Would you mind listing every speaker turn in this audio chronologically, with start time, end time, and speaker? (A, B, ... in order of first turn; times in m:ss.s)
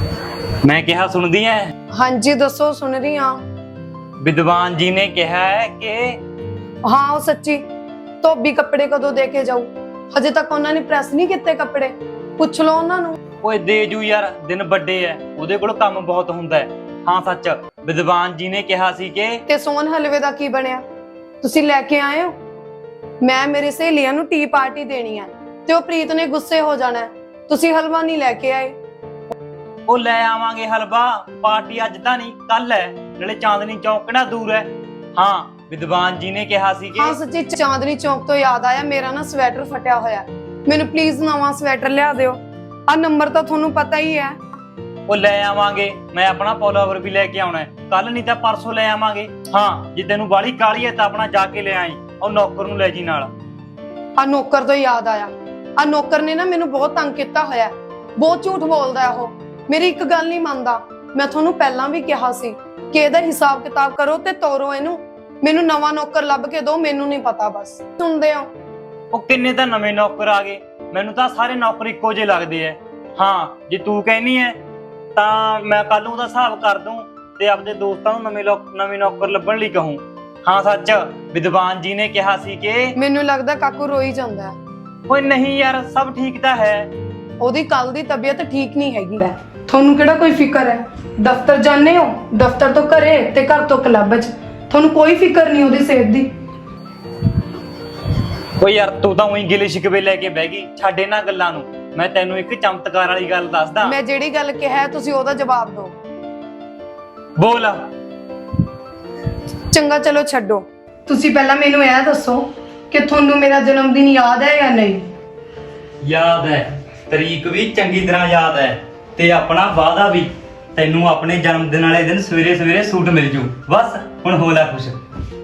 0:00.6-0:01.7 A
0:01.9-0:03.4 B
0:04.2-0:06.2 A
0:06.9-0:07.6 B
0:08.2-0:13.2 B
0:13.4-0:19.4 A
0:19.5-0:20.8 B
0:21.4-0:22.3 B
0:23.2-0:28.7 B
0:29.9-0:37.2 A
0:37.0-0:44.4 B
0:45.1-0:53.3 A
0:54.2-1:08.5 B
1:09.1-1:14.6 A
1:15.2-1:22.9 A
1:22.9-1:24.5 B
1:25.1-1:26.9 A
1:27.4-1:36.3 B
1:38.6-1:44.0 A
1:43.8-1:46.0 B
1:47.4-1:47.9 A
1:49.7-1:55.1 B
1:56.0-2:05.0 A